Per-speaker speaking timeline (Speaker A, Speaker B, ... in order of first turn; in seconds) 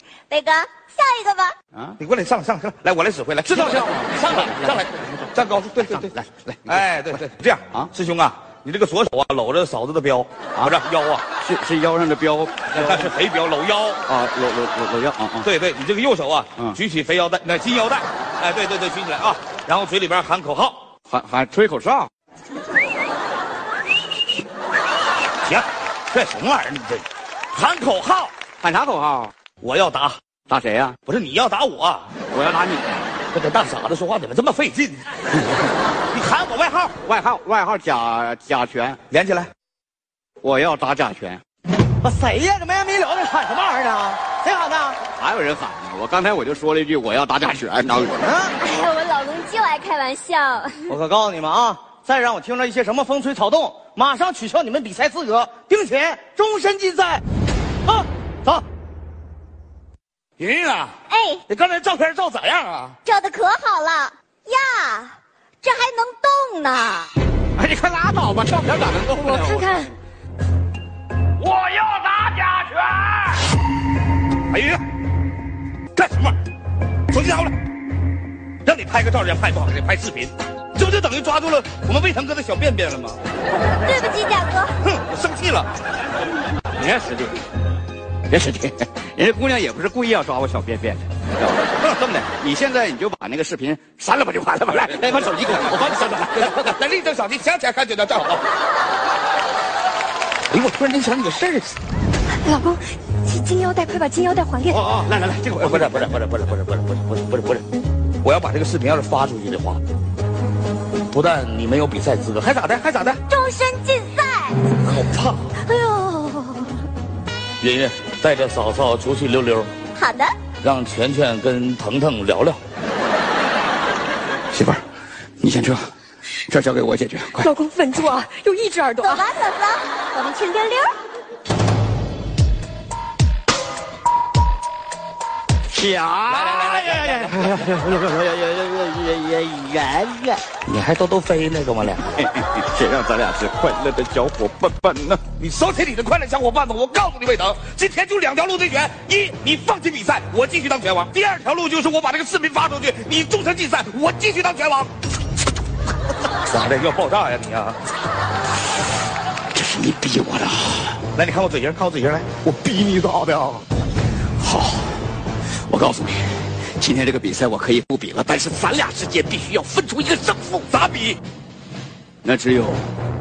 Speaker A: 0.3-1.5, 48.6-50.7, 61.1-61.4, 63.0-67.1, 83.8-84.7, 113.3-114.6, 115.6-116.7, 120.0-120.3, 129.0-130.9
Speaker B: 2.0-11.2, 12.7-14.0, 15.4-20.9, 25.4-28.3, 29.6-30.2, 31.1-32.1, 33.3-35.0, 39.1-39.5, 60.4-60.9, 61.5-63.0, 71.4-73.2, 74.5-74.8, 75.9-76.3, 77.1-77.5, 78.6-83.2, 84.8-85.7, 94.7-98.4, 100.5-101.8, 105.6-107.6, 108.2-109.8, 111.1-113.2, 114.8-115.5, 117.6-119.7, 120.6-122.6, 136.3-137.6, 140.6-142.3, 145.4-154.9, 156.5-157.8, 161.1-162.3, 170.7-171.2
Speaker C: 3.5-4.9, 5.8-6.8, 11.4-13.1, 14.1-15.5, 21.1-22.1, 28.6-29.3, 30.5-30.9, 32.3-33.0, 37.0-39.0, 40.4-41.4, 45.1-48.2, 67.6-69.9, 86.8-87.4, 88.3-96.7, 104.7-106.0, 124.5-124.8, 125.4-125.9, 126.5-127.5, 135.7-140.4, 142.2-145.2, 159.5-161.0, 162.4-163.6, 164.4-165.0, 165.7-170.7, 172.2-172.8
Speaker D: 36.1-36.9, 42.0-45.0, 48.0-48.5, 50.9-57.2, 57.9-58.6
Speaker E: 48.7-49.3, 102.4-104.8, 127.5-129.3